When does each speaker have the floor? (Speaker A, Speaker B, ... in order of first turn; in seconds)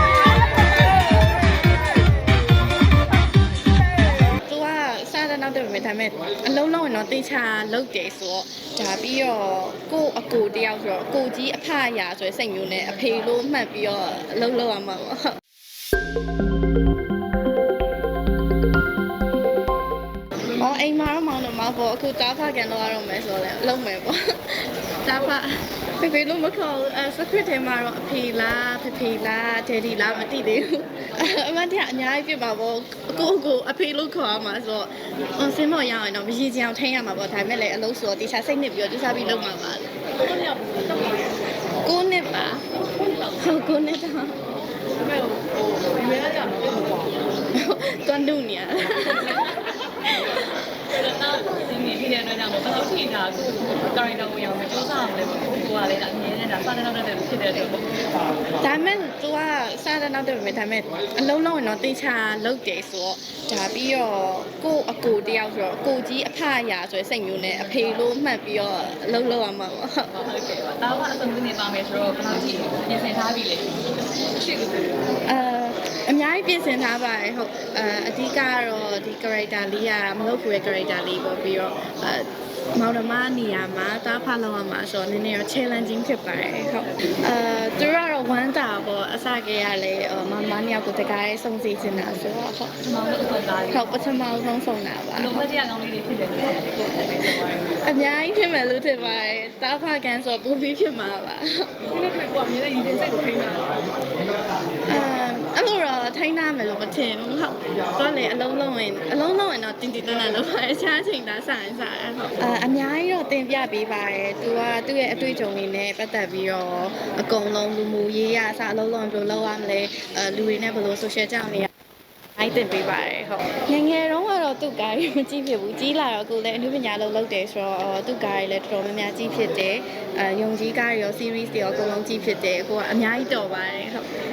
Speaker A: 4.4-15.4, 20.5-39.9, 41.8-44.4, 47.5-50.8, 58.6-70.1, 75.2-92.9, 93.7-95.4, 97.0-101.9, 104.9-121.7, 122.4-134.1
Speaker B: 40.2-41.3, 45.0-47.2, 49.4-49.6, 50.8-58.1, 70.1-74.8, 92.8-94.0, 95.2-97.5, 101.9-103.8